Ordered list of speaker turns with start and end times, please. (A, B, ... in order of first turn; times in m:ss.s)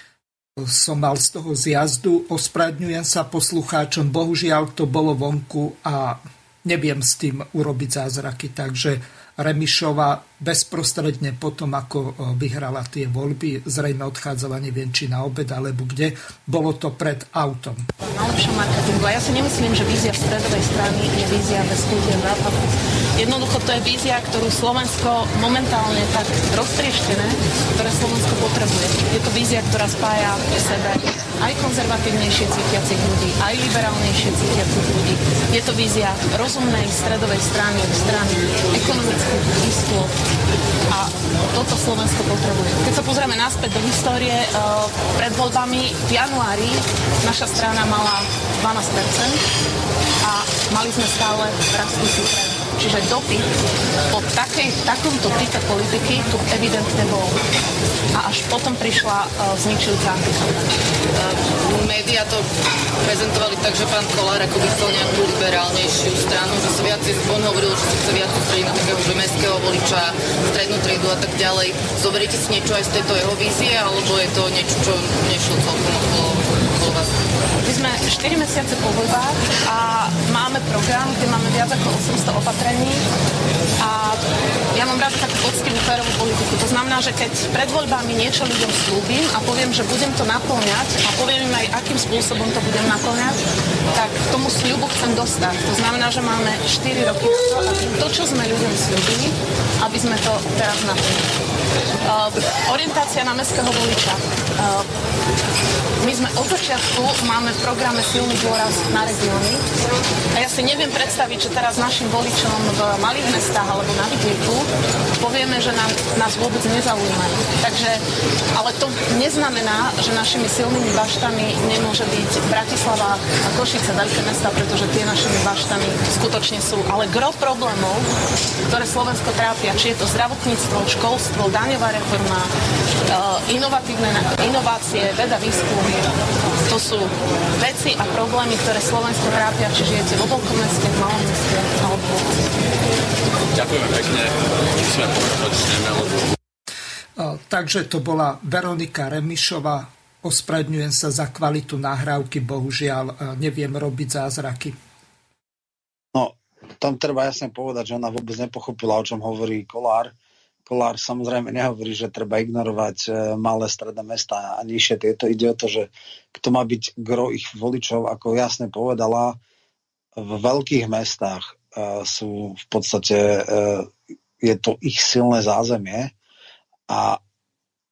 0:00.6-0:17.8 A
0:18.0-0:40.1 B
0:40.9-0:49.4 B
0:50.2-0:53.5 B
0:54.1-0:57.4 B
0:58.1-1:00.5 B
1:01.2-1:02.4 C
1:03.0-1:17.1 C
1:17.6-1:23.0 B
1:23.8-1:24.2 B
1:24.7-1:33.4 B
1:33.9-1:41.3 B
1:42.0-1:44.9 B
1:46.0-1:49.6 B
1:50.3-1:58.0 B
1:58.5-2:08.1 B
2:08.7-2:12.5 B
2:13.1-2:22.5 B
2:23.5-2:26.3 D
2:27.2-2:34.7 A
2:36.1-2:40.1 E
2:40.6-2:49.4 E
2:50.1-2:56.1 E
2:56.9-2:57.2 E